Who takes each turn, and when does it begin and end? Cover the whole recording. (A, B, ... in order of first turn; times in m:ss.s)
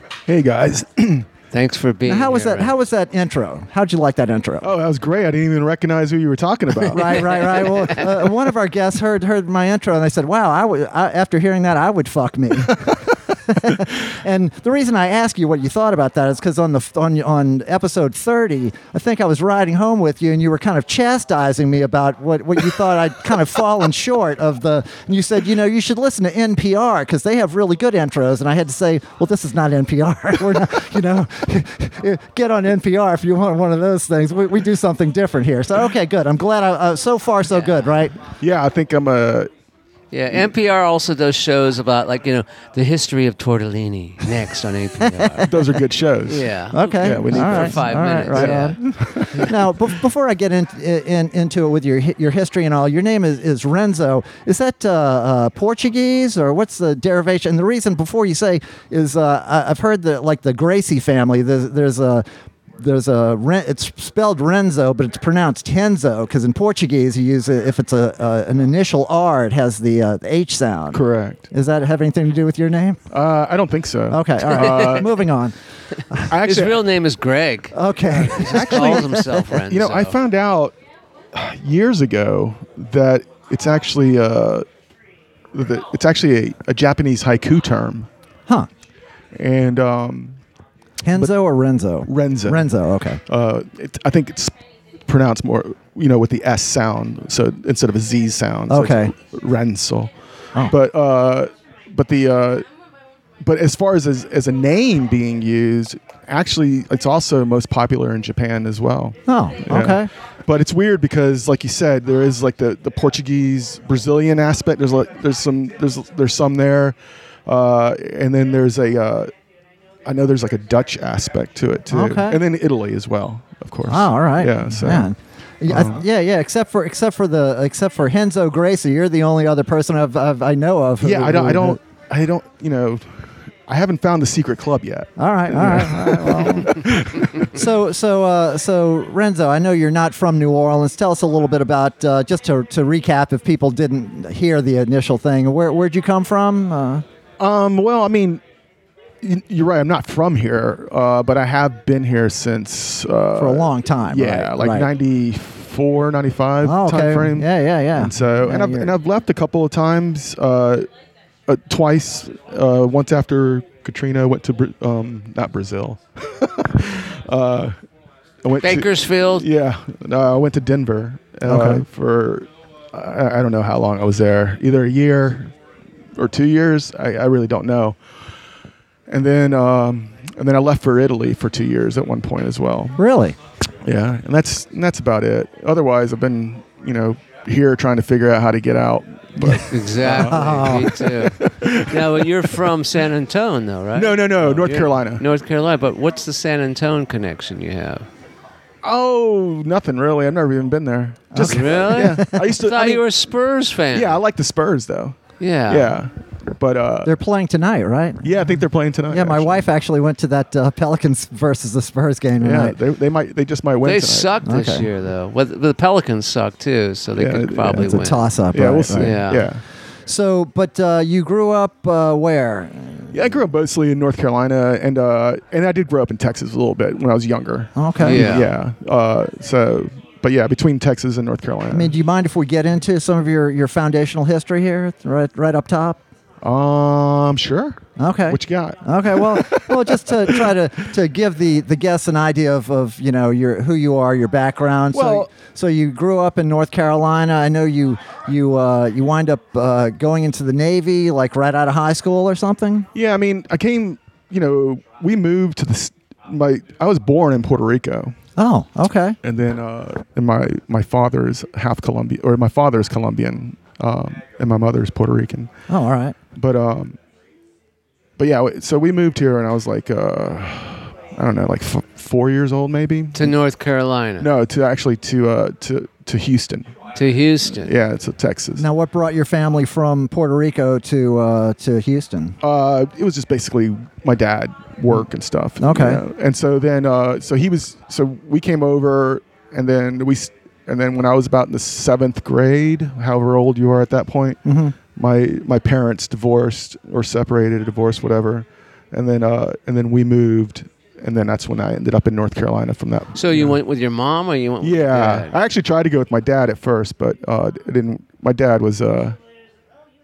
0:00.3-0:01.3 A
0:01.5-0:02.8 B
0:02.0-0:04.7 C
0:04.6-0:07.5 A
0:06.9-0:38.2 C
0:07.1-0:08.0 B
0:37.5-0:37.8 B
0:38.4-0:39.5 A
0:40.1-0:45.5 B
0:45.0-0:45.5 C
0:45.4-0:49.6 A
0:46.2-0:48.8 B
0:46.7-1:02.2 C
1:02.8-1:13.0 C
1:10.9-1:11.4 A
1:13.1-1:15.2 A
1:14.1-1:15.6 C
1:16.3-1:16.8 A
1:16.4-1:20.2 B
1:17.7-1:19.4 C
1:18.1-1:20.7 A
1:21.3-1:24.7 A
1:25.5-1:28.1 A
1:29.4-1:30.4 A
1:31.0-1:33.2 C
1:32.1-1:32.7 A
1:33.3-1:34.5 A
1:35.1-1:40.1 A
1:38.7-1:39.1 C
1:40.7-1:42.6 A
1:43.4-1:59.3 A
1:49.3-1:50.1 C
2:00.0-2:05.1 A
2:01.9-2:02.4 C
2:03.9-2:11.8 C
2:05.7-2:06.0 A
2:11.0-2:17.6 A
2:15.2-2:16.9 C
2:17.4-2:27.0 C
2:27.4-2:28.4 A
2:29.2-2:40.9 A
2:33.4-2:34.9 C
2:36.6-2:38.9 C
2:41.5-2:47.8 A
2:48.4-2:55.5 A
2:48.6-2:49.4 B
2:51.4-2:51.8 C
2:56.2-2:58.0 A
2:59.1-3:03.0 A
3:03.0-3:03.4 C
3:03.8-3:12.5 A
3:09.4-3:11.0 C
3:09.6-3:18.1 B
3:13.9-3:15.2 A
3:18.8-3:23.0 A
3:21.3-3:22.5 C
3:21.4-3:24.2 B
3:23.9-3:27.1 A
3:25.4-3:26.0 B
3:27.0-3:28.6 C
3:28.2-3:29.6 A
3:29.1-3:32.8 C
3:32.4-3:34.4 A
3:33.8-3:38.2 B
3:34.4-3:34.9 C
3:37.2-3:38.0 A
3:37.8-3:39.2 C
3:38.5-3:39.6 A
3:39.0-3:39.5 B
3:40.1-3:43.4 C
3:43.1-3:51.9 A
3:47.8-3:48.3 C
3:48.0-3:48.5 B
3:51.7-3:56.0 C
3:56.4-4:00.5 A
3:58.0-4:12.9 C
4:04.9-4:05.3 A
4:12.9-4:18.2 A
4:18.4-4:19.2 C
4:19.2-4:25.5 A
4:25.7-4:26.2 C
4:26.4-4:27.0 A
4:28.2-4:33.3 A
4:33.1-4:34.3 B
4:34.2-4:36.7 A
4:37.0-4:37.7 B
4:37.6-4:38.6 A
4:38.6-4:42.4 C
4:42.4-4:54.4 A
4:45.6-4:46.0 C
4:54.4-4:54.7 C
4:54.9-5:03.5 A
5:03.1-5:05.4 B
5:04.6-5:09.2 A